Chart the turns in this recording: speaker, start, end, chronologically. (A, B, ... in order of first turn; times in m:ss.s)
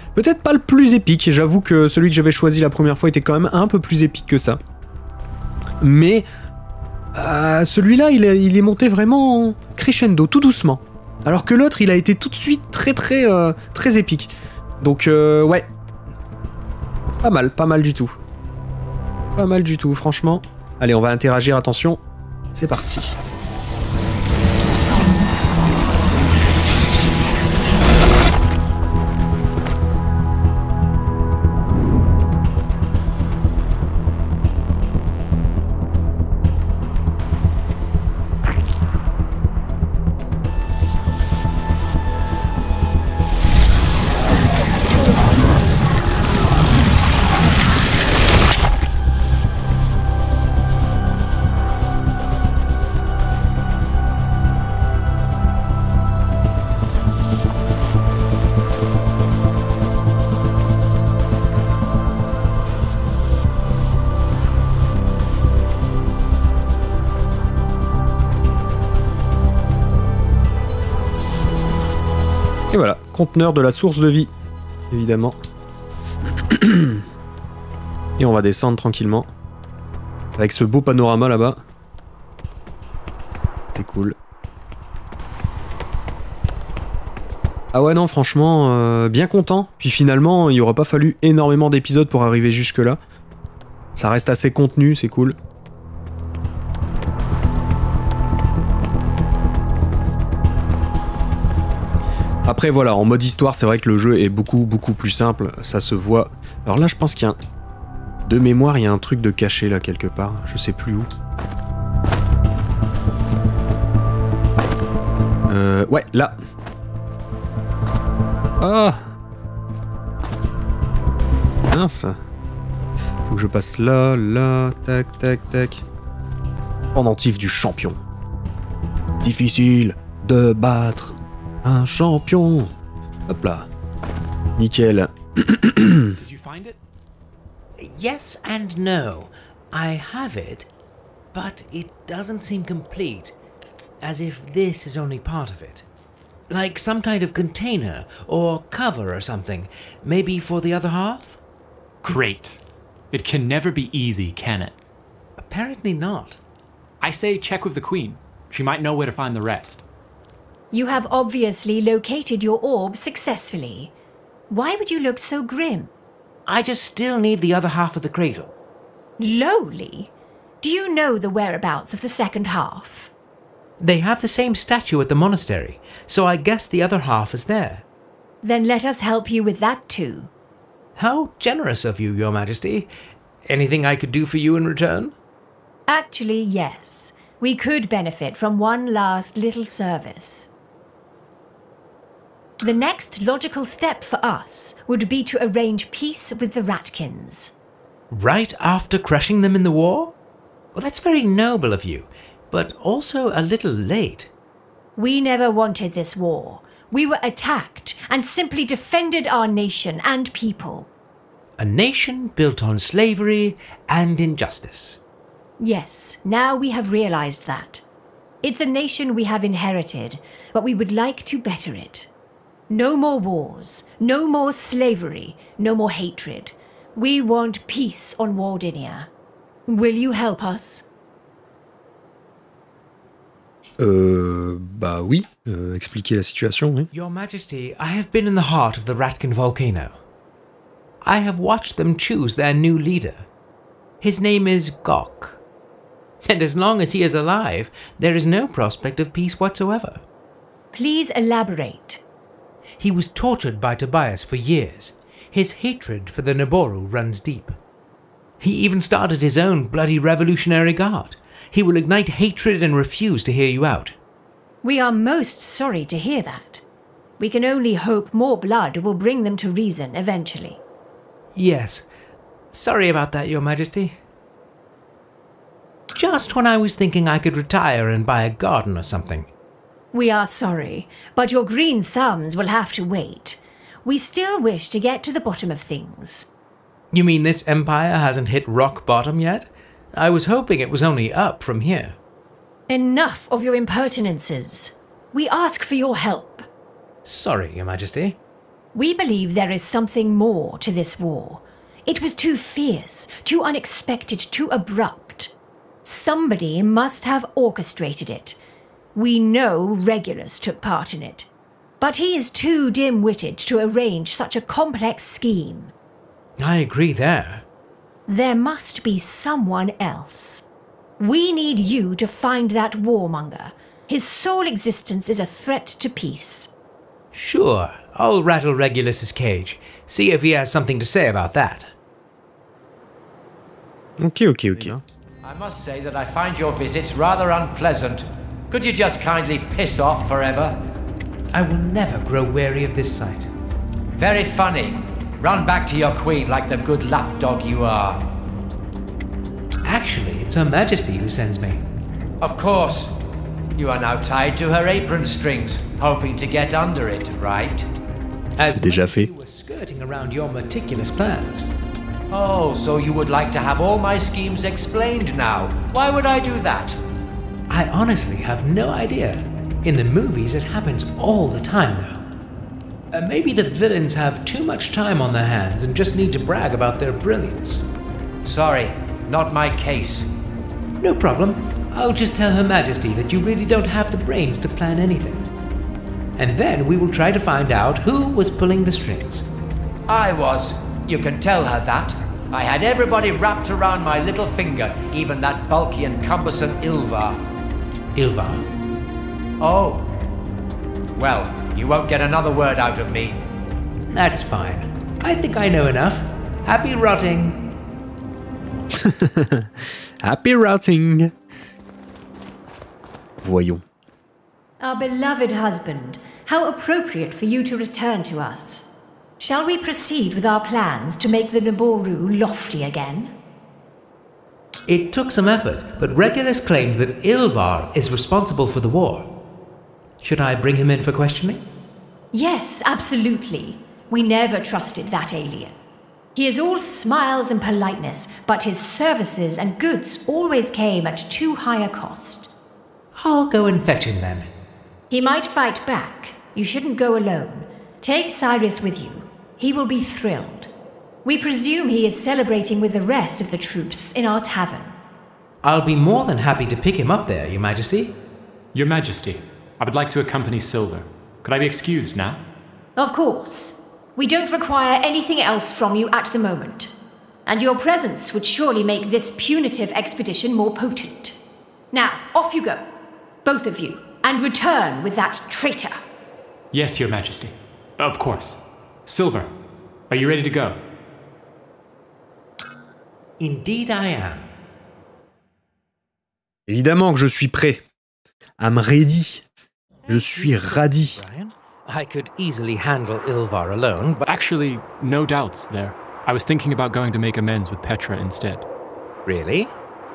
0:00.2-0:04.6 A
0:05.8-0:06.3 A
0:07.2-0:15.7 A
0:17.2-0:18.2 A
0:19.4-0:22.0 A
0:22.5-0:23.2 A
1:12.7-1:14.3 A
1:14.9-1:15.4 A
1:16.5-1:17.0 A
1:18.2-1:19.3 A
1:20.4-1:21.6 A
1:23.7-1:24.2 A
1:27.7-1:33.0 A
1:34.0-1:35.4 A
1:42.5-1:47.4 A
1:48.2-1:51.1 A
1:55.5-1:56.4 A
1:58.6-1:59.0 A
2:01.7-2:02.2 A
2:03.3-2:05.8 A
2:06.9-2:08.0 A
2:09.2-2:12.7 A
2:13.3-2:13.7 A
2:14.6-2:16.2 A
2:16.2-2:16.8 B
2:17.8-2:20.7 C
2:21.3-2:23.4 C
2:24.0-2:25.9 C
2:26.5-2:31.4 C
2:32.0-2:32.6 B
2:33.1-2:34.8 B
2:35.4-2:36.4 C
2:37.0-2:39.8 B
2:40.7-2:43.9 D
2:44.5-2:45.9 D
2:46.5-2:48.5 C
2:49.2-2:53.1 D
2:53.8-2:57.8 C
2:58.4-3:00.3 D
3:01.0-3:02.9 C
3:03.5-3:05.1 C
3:05.9-3:10.5 D
3:12.6-3:17.5 D
3:18.1-3:20.2 C
3:20.8-3:24.3 C
3:25.0-3:30.9 D
3:31.6-3:35.0 C
3:35.6-3:37.8 D
3:38.4-3:42.1 D
3:42.7-3:49.1 D
3:49.7-3:50.8 D
3:53.8-3:56.9 A
3:56.9-4:00.0 C
4:01.0-4:03.3 C
4:04.0-4:05.4 C
4:06.2-4:10.0 C
4:10.7-4:12.0 D
4:12.8-4:17.6 C
4:18.4-4:24.0 C
4:24.6-4:26.6 D
4:27.2-4:30.6 D
4:31.4-4:31.9 C
4:32.5-4:34.0 C
4:36.0-4:39.3 C
4:39.9-4:46.3 D
4:46.9-4:52.0 C
4:52.7-4:56.4 D
4:57.0-4:58.2 C
4:58.7-5:05.3 D
5:05.8-5:08.4 D
5:09.0-5:11.3 D
5:11.8-5:15.7 D
5:16.4-5:17.4 C
5:18.1-5:20.4 D
5:21.0-5:26.5 D
5:27.1-5:31.7 C
5:34.0-5:34.8 A
5:35.2-5:40.6 E
5:41.3-5:43.3 C
5:43.9-5:48.0 E
5:49.6-5:51.6 C
5:52.2-5:52.9 E
5:53.6-5:57.7 E
5:58.4-6:01.5 C
5:58.4-5:59.1 A
6:02.1-6:06.8 E
6:07.5-6:12.1 C
6:12.9-6:17.7 C
6:18.2-6:20.1 E
6:20.8-6:25.3 C
6:26.2-6:29.3 C
6:29.9-6:37.2 E
6:38.0-6:38.5 C
6:39.4-6:39.9 E
6:41.0-6:43.2 E
6:43.9-6:47.5 C
6:48.7-6:49.5 A
6:50.0-6:51.1 A
6:53.2-6:53.6 A
6:54.6-6:58.6 D
6:59.2-7:03.1 D
7:04.7-7:09.2 C
7:10.0-7:11.4 C
7:12.1-7:15.6 D
7:16.2-7:22.3 D
7:23.0-7:24.3 C
7:24.9-7:30.5 D
7:31.0-7:34.8 D
7:35.4-7:38.0 C
7:38.5-7:42.2 B
7:42.8-7:46.7 D
7:47.3-7:51.2 D
7:51.7-7:52.6 D
7:53.2-7:55.8 D
7:56.5-7:59.3 B
7:59.9-8:00.6 B
8:03.2-8:04.3 C
8:06.5-8:07.6 A
8:08.4-8:09.2 A
8:09.9-8:14.1 C
8:09.9-8:11.0 A
8:14.0-8:18.5 B
8:19.1-8:19.6 C